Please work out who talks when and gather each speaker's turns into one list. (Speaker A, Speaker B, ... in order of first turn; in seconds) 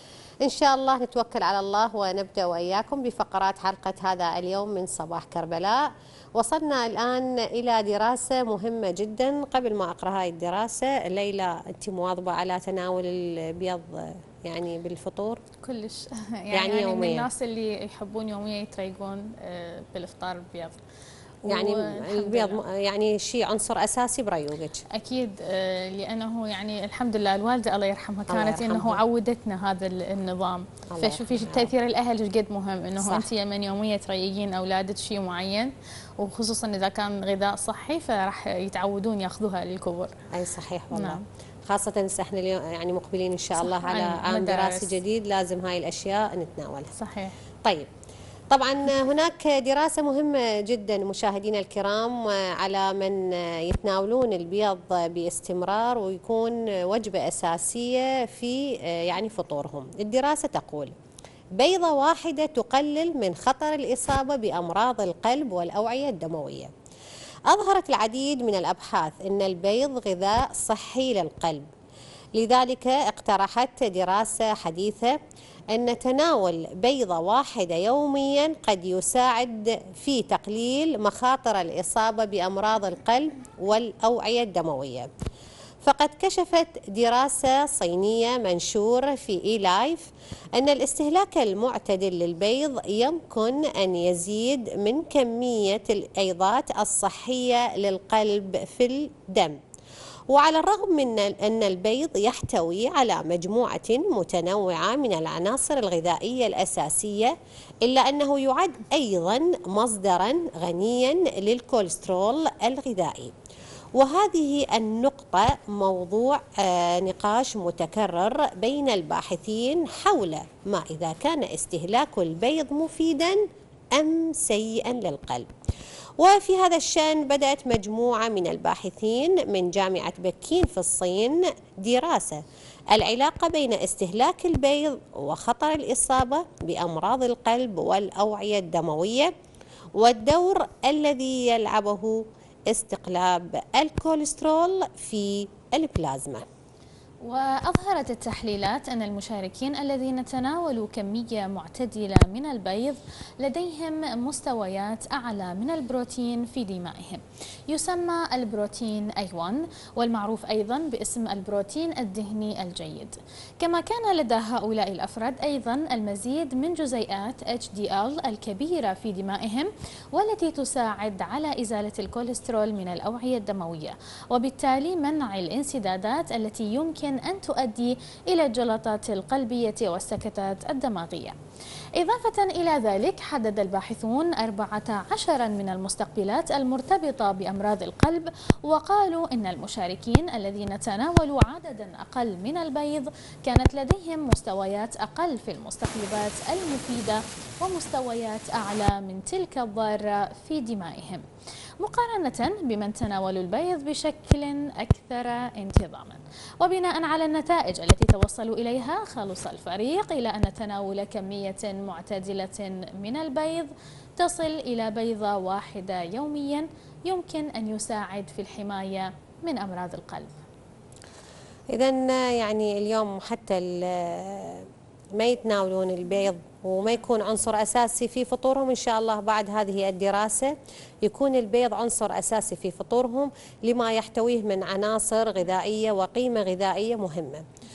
Speaker A: 0.4-15.4, 16.5-17.3, 21.5-24.8, 28.3-29.0, 30.9-31.7, 33.0-33.3, 40.3-46.9, 48.5-60.9, 61.6-66.7, 67.5-71.7, 72.3-75.2, 75.7-85.1, 85.8-99.6, 100.3-107.3, 107.8-113.3, 113.9-123.4, 123.9-125.5, 126.2-132.4, 132.9-139.3, 139.9-146.4, 221.7-237.4
Speaker B: 15.6-20.8, 21.4-22.6, 24.9-40.2, 40.9-41.2, 43.6-45.0, 47.0-47.4, 147.2-181.3, 182.0-201.2, 201.8-220.4